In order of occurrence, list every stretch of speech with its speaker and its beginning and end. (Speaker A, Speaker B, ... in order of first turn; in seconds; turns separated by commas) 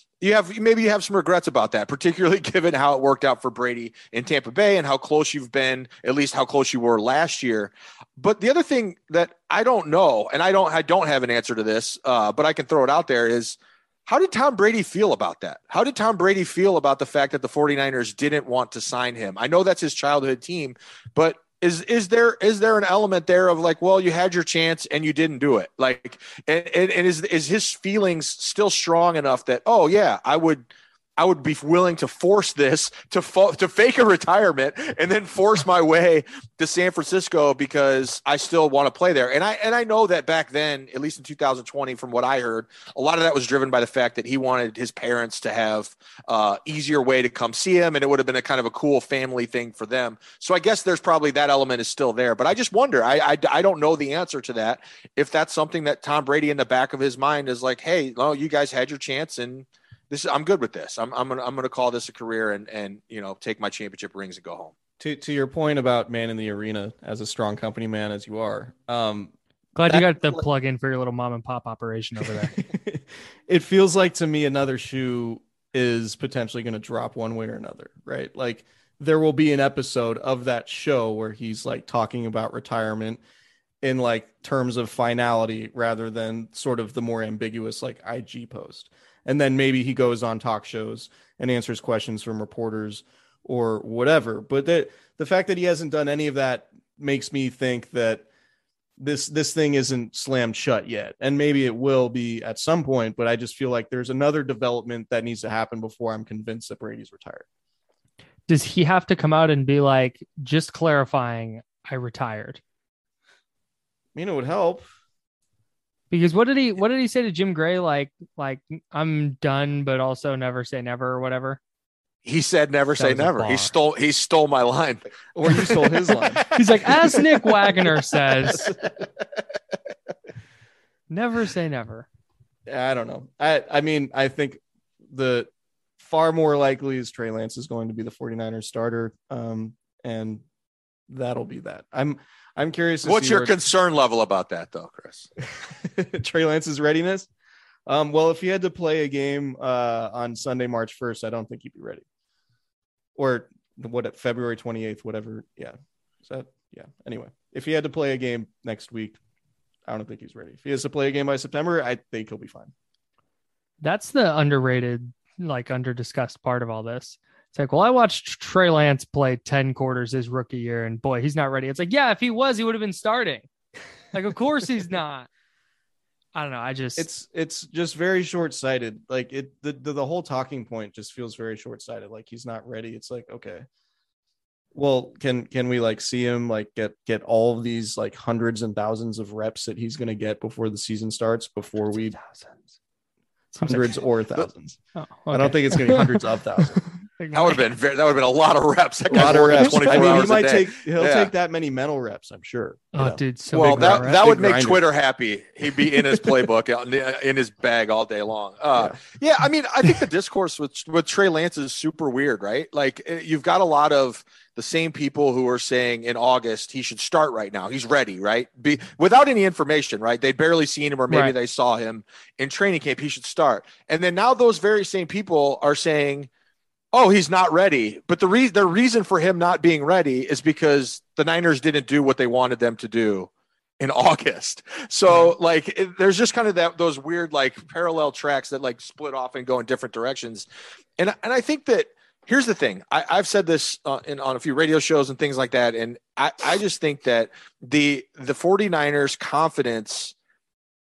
Speaker A: 0.2-64.7, Speaker B: 65.0-69.3, Speaker C: 69.8-72.6, Speaker B: 69.9-70.4, Speaker B: 72.2-83.2, Speaker B: 83.8-98.2, Speaker B: 99.0-107.5, Speaker C: 108.5-112.6, Speaker B: 114.1-114.9, Speaker C: 116.1-121.6, Speaker A: 122.2-125.0, Speaker C: 123.0-123.7, Speaker B: 125.3-127.5, Speaker C: 126.5-128.7, Speaker B: 128.5-129.1, Speaker C: 131.1-132.1, Speaker B: 132.7-140.4, Speaker B: 141.1-143.6, Speaker A: 143.0-145.3, Speaker B: 145.6-147.3, Speaker B: 147.9-152.0, Speaker B: 153.2-159.2, Speaker B: 159.9-162.7, Speaker C: 163.8-173.5, Speaker C: 174.1-175.3, Speaker C: 176.3-177.1, Speaker B: 177.0-183.7, Speaker B: 184.7-192.2, Speaker C: 191.9-192.7, Speaker C: 193.5-193.9, Speaker B: 193.6-196.8, Speaker C: 194.9-196.2, Speaker C: 197.2-197.6, Speaker A: 197.3-201.3, Speaker B: 199.1-204.8, Speaker C: 202.9-204.2, Speaker A: 203.5-226.3, Speaker B: 205.8-206.4, Speaker A: 226.9-240.5, Speaker A: 241.0-250.1